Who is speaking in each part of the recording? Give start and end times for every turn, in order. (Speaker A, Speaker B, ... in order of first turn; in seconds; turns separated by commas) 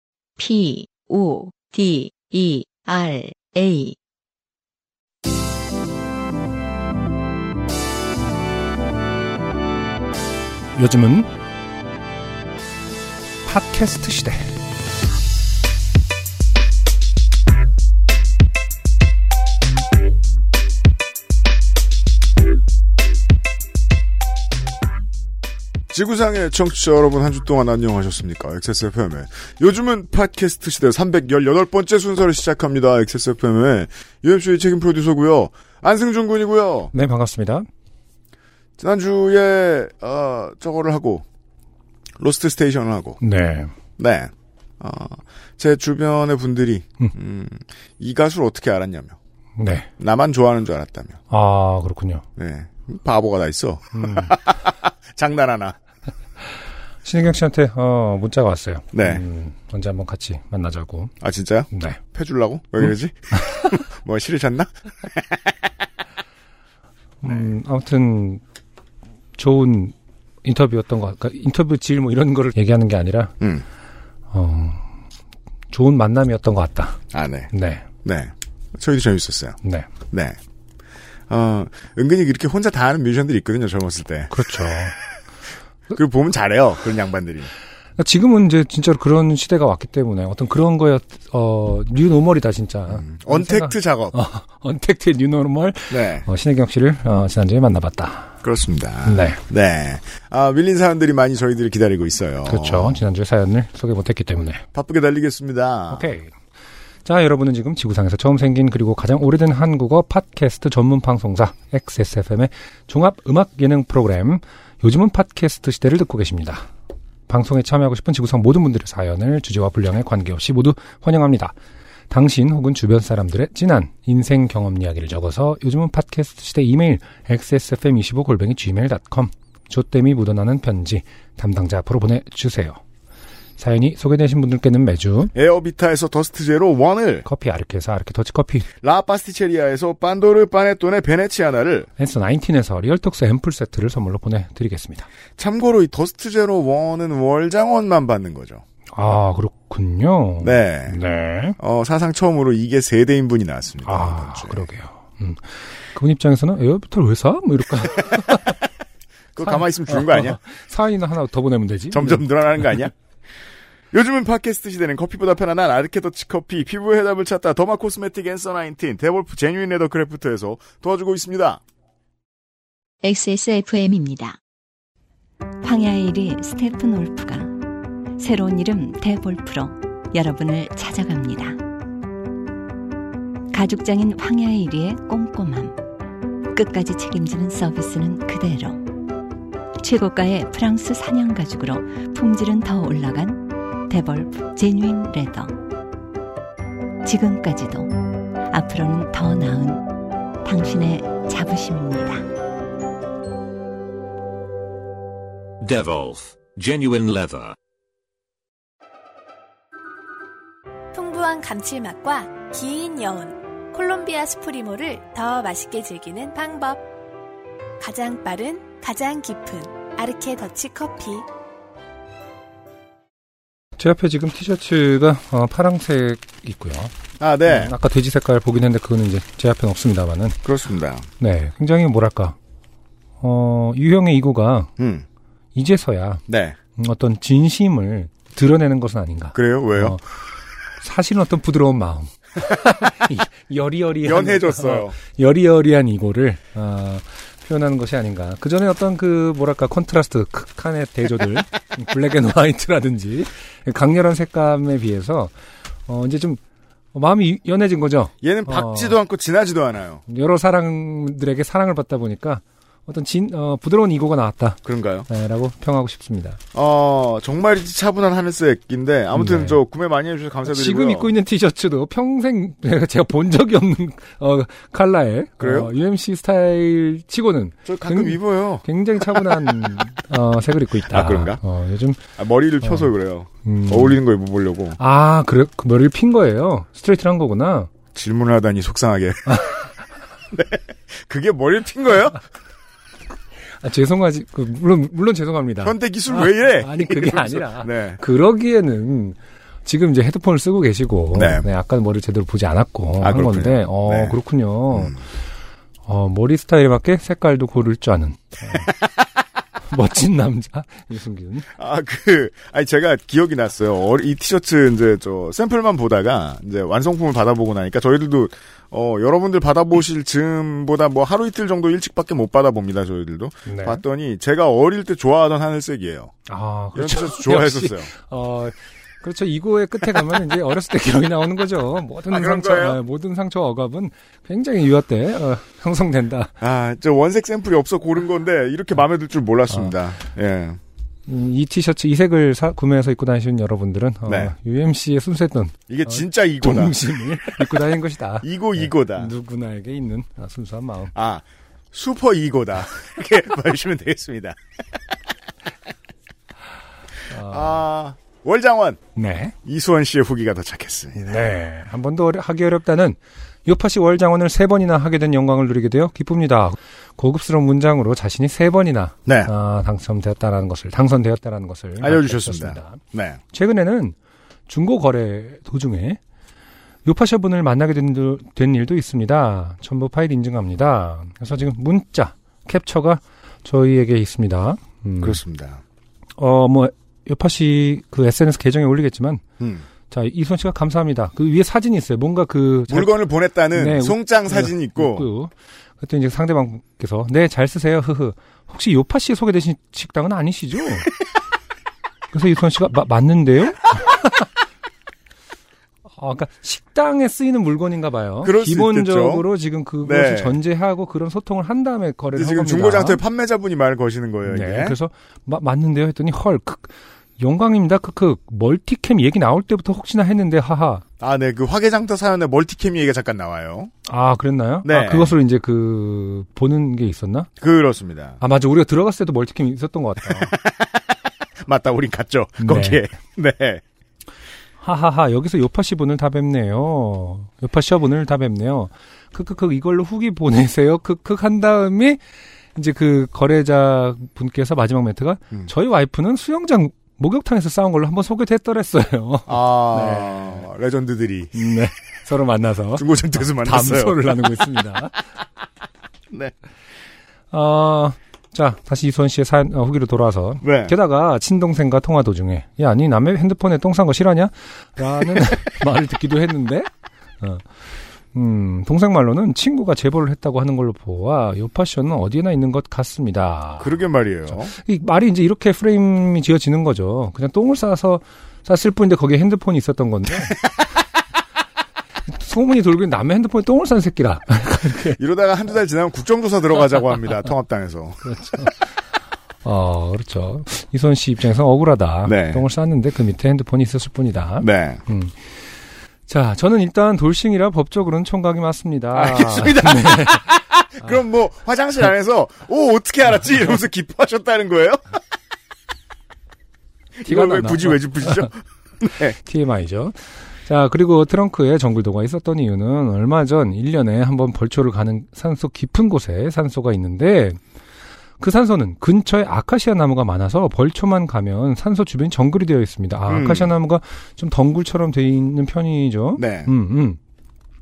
Speaker A: 0.4-4.0, Speaker B: 10.8-11.3, Speaker B: 13.4-14.5, Speaker C: 25.9-36.9, Speaker B: 36.9-37.7, Speaker C: 38.8-41.2, Speaker C: 42.2-43.2, Speaker B: 43.2-43.7, Speaker C: 44.0-49.2, Speaker B: 49.6-49.9, Speaker C: 50.0-51.2, Speaker B: 51.3-52.2, Speaker C: 52.4-55.8, Speaker B: 53.9-54.3, Speaker B: 57.0-61.1, Speaker C: 58.9-59.2, Speaker C: 61.2-65.6, Speaker B: 61.7-62.0, Speaker B: 67.2-68.4, Speaker B: 69.4-73.3, Speaker B: 74.3-74.8, Speaker B: 75.7-77.0, Speaker C: 77.1-77.5, Speaker B: 77.5-77.8, Speaker C: 78.0-79.6, Speaker C: 80.1-80.4, Speaker C: 81.3-84.8, Speaker B: 84.3-84.9, Speaker C: 85.9-87.5, Speaker B: 88.0-98.3, Speaker C: 92.9-94.2, Speaker C: 95.9-96.2, Speaker C: 98.4-103.0, Speaker B: 99.0-99.4, Speaker B: 102.5-104.6, Speaker C: 104.7-106.1, Speaker B: 105.9-106.3, Speaker B: 107.0-116.7, Speaker B: 117.3-121.5, Speaker B: 122.1-132.8, Speaker B: 133.6-135.3, Speaker C: 135.3-137.3, Speaker B: 137.3-138.7, Speaker C: 138.8-141.9, Speaker B: 142.0-145.1, Speaker C: 145.4-148.6, Speaker B: 148.9-151.6, Speaker C: 150.4-151.0, Speaker C: 151.6-154.7, Speaker B: 153.8-158.6, Speaker C: 157.9-158.4, Speaker C: 159.3-160.4, Speaker B: 159.4-162.9, Speaker C: 161.9-162.9, Speaker C: 163.9-171.6, Speaker A: 173.0-174.4, Speaker D: 175.6-177.5, Speaker D: 178.2-181.6, Speaker D: 183.5-185.8, Speaker D: 186.5-188.9, Speaker D: 189.8-195.6, Speaker D: 197.0-199.9, Speaker D: 200.4-202.3, Speaker E: 205.6-207.6, Speaker F: 210.9-216.8, Speaker F: 217.8-221.3, Speaker B: 223.8-226.9, Speaker C: 227.2-227.8, Speaker B: 227.5-230.4, Speaker C: 230.4-231.1, Speaker B: 231.2-232.4, Speaker B: 233.2-234.7, Speaker C: 234.8-235.1, Speaker B: 235.6-236.2, Speaker C: 236.3-236.6, Speaker B: 236.8-240.0, Speaker C: 239.3-240.0, Speaker B: 240.8-255.3, Speaker C: 244.0-245.0, Speaker B: 255.9-256.4, Speaker B: 256.9-259.0, Speaker C: 258.2-260.0, Speaker B: 260.1-266.4, Speaker C: 264.6-265.1, Speaker C: 266.5-271.1, Speaker B: 269.1-269.6, Speaker B: 270.5-282.0, Speaker C: 275.4-275.7, Speaker C: 277.6-279.5, Speaker C: 280.8-281.4, Speaker C: 282.2-284.8, Speaker B: 282.6-282.9, Speaker B: 283.4-284.0, Speaker B: 284.8-287.7, Speaker C: 287.9-289.5, Speaker C: 290.3-292.2, Speaker B: 293.6-305.0, Speaker C: 295.6-298.0, Speaker C: 301.1-301.5, Speaker C: 303.0-304.2, Speaker C: 304.7-305.0, Speaker B: 305.9-308.7, Speaker B: 309.7-311.5, Speaker C: 311.6-326.2, Speaker B: 323.4-323.8, Speaker B: 326.3-336.3, Speaker C: 326.8-327.9, Speaker C: 332.1-332.8, Speaker C: 336.4-340.6, Speaker B: 341.1-350.9, Speaker C: 344.1-344.3, Speaker C: 345.7-347.3, Speaker C: 348.2-349.1, Speaker C: 350.9-354.4, Speaker B: 357.1-357.6, Speaker C: 357.2-358.8, Speaker B: 358.9-359.3, Speaker C: 359.4-361.2, Speaker B: 360.9-372.8, Speaker C: 369.1-369.3, Speaker C: 371.8-373.2, Speaker B: 373.3-373.9, Speaker B: 374.5-376.0, Speaker B: 376.8-385.2, Speaker C: 385.0-385.6, Speaker B: 386.2-389.2, Speaker C: 389.4-389.6, Speaker B: 389.9-392.9, Speaker C: 392.7-395.1, Speaker B: 393.5-400.9, Speaker B: 402.1-404.3, Speaker B: 406.0-413.0, Speaker C: 408.2-409.3, Speaker C: 409.8-410.4, Speaker C: 412.1-414.8, Speaker B: 414.2-420.8, Speaker C: 421.0-423.7, Speaker B: 423.9-427.3, Speaker C: 424.6-425.1, Speaker C: 427.4-428.2, Speaker B: 428.2-430.3, Speaker C: 430.1-433.6, Speaker B: 432.4-432.8, Speaker B: 434.6-442.0, Speaker B: 442.5-450.4, Speaker C: 449.3-451.4, Speaker B: 451.3-454.9, Speaker C: 452.8-454.4, Speaker B: 457.3-466.7, Speaker C: 460.4-460.7, Speaker B: 467.2-467.5, Speaker B: 468.1-473.8, Speaker C: 473.6-474.5, Speaker B: 474.3-480.4, Speaker B: 482.1-485.0, Speaker C: 485.0-488.0, Speaker B: 488.0-488.8, Speaker B: 489.4-495.2, Speaker C: 492.1-492.4, Speaker C: 494.4-494.8, Speaker B: 496.1-500.3, Speaker C: 498.9-504.8, Speaker C: 506.9-509.1, Speaker B: 507.0-508.3, Speaker B: 508.9-517.4, Speaker B: 518.2-527.0, Speaker C: 523.1-523.5, Speaker C: 526.1-526.5